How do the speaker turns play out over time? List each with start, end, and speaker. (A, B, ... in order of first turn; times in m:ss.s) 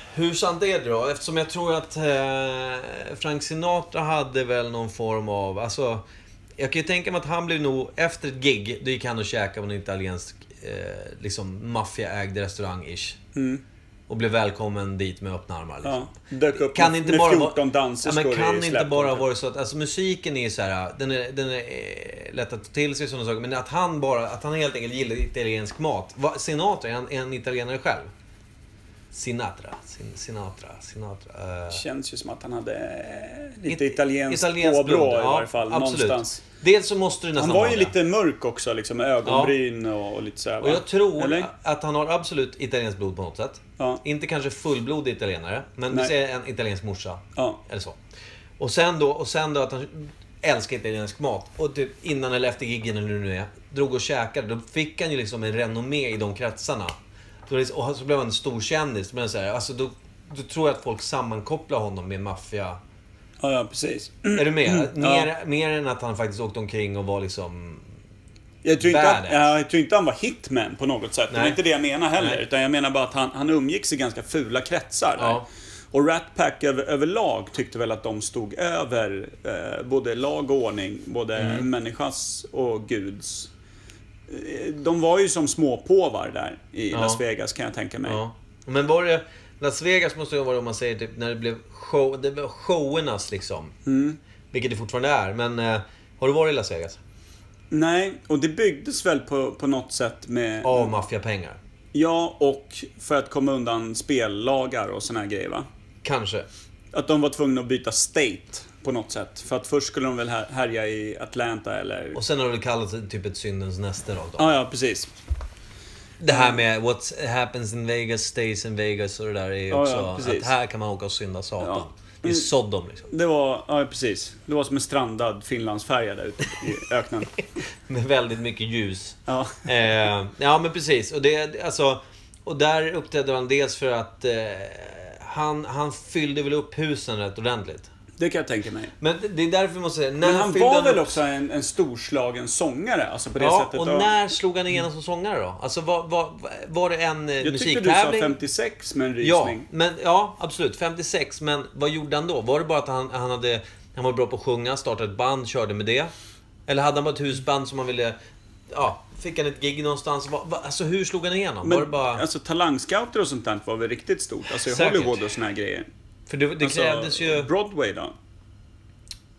0:00.1-0:06.0 A
0:06.6-0:13.2 A
0:13.3-0:13.6 B
0:14.1-0:28.1 A
0:15.8-0:19.3 B
0:29.1-0:31.8 A
0:31.7-0:36.4 B
0:33.7-0:38.0 A
0:37.4-0:41.5 B
0:39.2-0:39.6 A
0:40.6-0:48.0 A
0:48.6-0:57.0 A
0:57.5-1:02.8 A
1:03.4-1:05.3 B
1:04.3-1:07.9 A
1:08.6-1:23.5 B
1:08.8-1:09.5 A
1:11.3-1:11.6 A
1:15.2-1:15.5 A
1:21.4-1:21.7 A
1:24.3-1:28.2 B
1:26.9-1:27.2 A
1:28.0-1:33.8 A
1:33.9-1:34.2 B
1:34.5-1:37.0 A
1:37.7-1:40.9 B
1:40.6-1:41.6 A
1:41.9-1:45.7 B
1:46.0-1:46.5 A
1:46.9-1:52.2 B
1:52.1-1:54.5 A
1:54.4-1:55.1 B
1:56.2-2:03.1 A
1:59.7-2:00.5 B
2:01.6-2:02.5 B
2:03.1-2:07.3 B
2:07.9-2:17.9 A
2:09.3-2:09.6 B
2:18.2-2:18.9 B
2:19.0-2:21.2 A
2:20.2-2:24.1 B
2:23.4-2:28.4 A
2:27.4-2:29.7 B
2:29.2-2:36.1 A
2:36.7-2:38.2 A
2:38.7-2:42.2 A
2:41.6-2:45.9 B
2:44.6-2:45.2 A
2:46.3-2:47.5 A
2:46.6-2:48.1 B